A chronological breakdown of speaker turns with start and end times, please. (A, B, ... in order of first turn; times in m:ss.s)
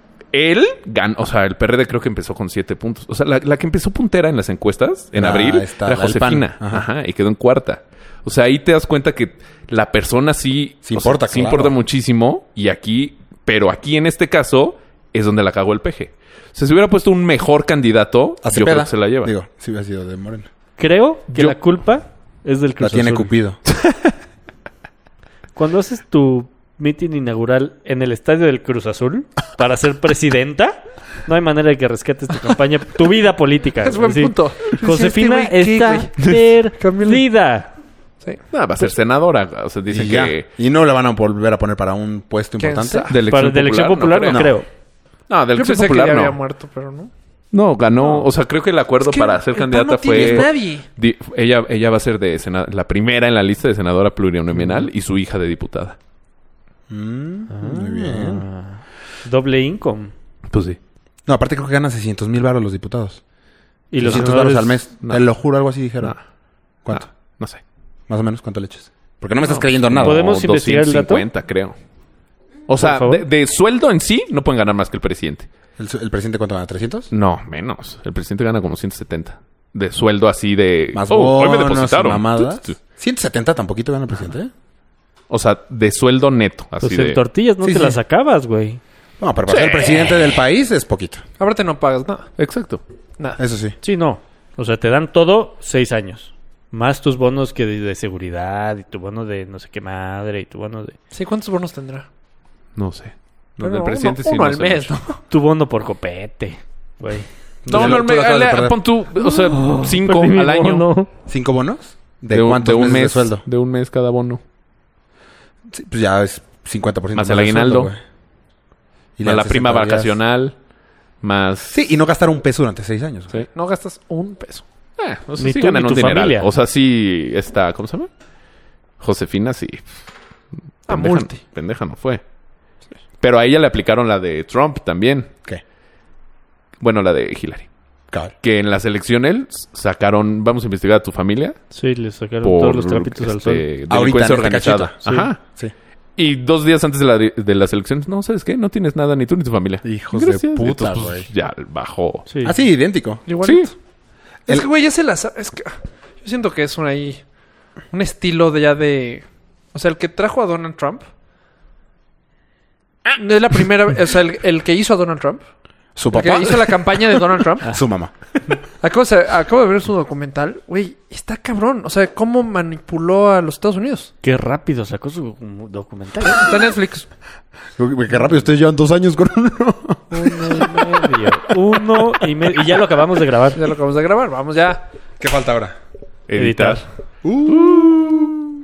0:00.3-0:19.3 A
0:05.1-0:06.8 B
0:10.8-0:11.7 B
0:18.4-0:20.5 B
0:20.8-0:23.3 C
0:21.3-0:21.6 A
0:22.8-0:23.6 B
0:23.7-0:24.1 A
0:25.6-0:37.7 C
0:33.8-0:37.2 D
0:38.5-0:40.5 A
0:39.9-0:43.1 B
0:42.6-0:43.2 D
0:43.1-0:44.5 A
0:43.2-0:44.7 C
0:45.3-0:46.4 A
0:45.5-0:47.1 D
0:47.5-0:56.0 A
0:48.0-0:48.2 D
0:49.0-0:50.8 D
0:50.1-0:50.5 B
0:56.9-0:58.5 B
0:57.5-1:00.1 C
1:00.5-1:00.8 A
1:01.2-1:03.2 B
1:03.9-1:04.8 C
1:04.0-1:06.2 B
1:04.0-1:04.3 A
1:06.8-1:07.1 B
1:06.9-1:07.6 A
1:08.1-1:10.2 B
1:09.4-1:11.8 A
1:10.0-1:11.2 C
1:12.7-1:15.5 A
1:12.7-1:13.2 C
1:15.8-1:17.1 B
1:17.1-1:22.8 A
1:20.9-1:24.5 B
1:25.3-1:27.2 A
1:26.8-1:28.8 C
1:27.6-1:28.0 B
1:29.2-1:31.2 B
1:29.5-1:30.3 A
1:31.4-1:32.3 D
1:32.4-1:32.8 A
1:33.4-1:33.8 B
1:33.8-1:41.0 C
1:41.1-1:42.1 D
1:42.8-1:45.0 A
1:43.6-1:45.2 D
1:45.3-1:48.0 C
1:47.6-1:48.8 B
1:47.7-1:50.9 A
1:49.2-1:51.1 C
1:51.3-1:53.4 B
1:52.3-1:54.4 A
1:55.7-1:58.0 B
1:57.1-1:57.9 A
1:59.2-2:00.1 B
1:59.2-2:00.5 A
2:01.2-2:01.7 A
2:01.7-2:03.3 B
2:03.5-2:04.6 D
2:05.0-2:08.1 A
2:05.4-2:06.5 C
2:09.0-2:09.9 A
2:10.8-2:12.2 A
2:10.9-2:11.4 D
2:13.2-2:15.3 A
2:16.8-2:17.7 A
2:18.4-2:21.6 A
2:21.7-2:23.6 C
2:22.4-2:25.4 A
2:23.9-2:25.7 B
2:26.2-2:32.2 A
2:29.8-2:31.3 B
2:32.3-2:32.6 C
2:32.4-2:33.2 B
2:33.2-2:33.7 D
2:33.4-2:33.7 A
2:34.5-2:37.2 D
2:37.9-2:41.0 D
2:43.1-2:45.4 D
2:46.0-2:48.1 B
2:46.1-2:47.7 D
2:48.8-2:54.1 D
2:54.2-2:56.5 C
2:56.2-2:57.0 D
2:57.8-3:01.4 B
3:00.1-3:03.6 C
3:03.5-3:04.8 D
3:05.2-3:05.7 B
3:06.3-3:06.8 A
3:06.4-3:06.8 C
3:07.2-3:08.5 B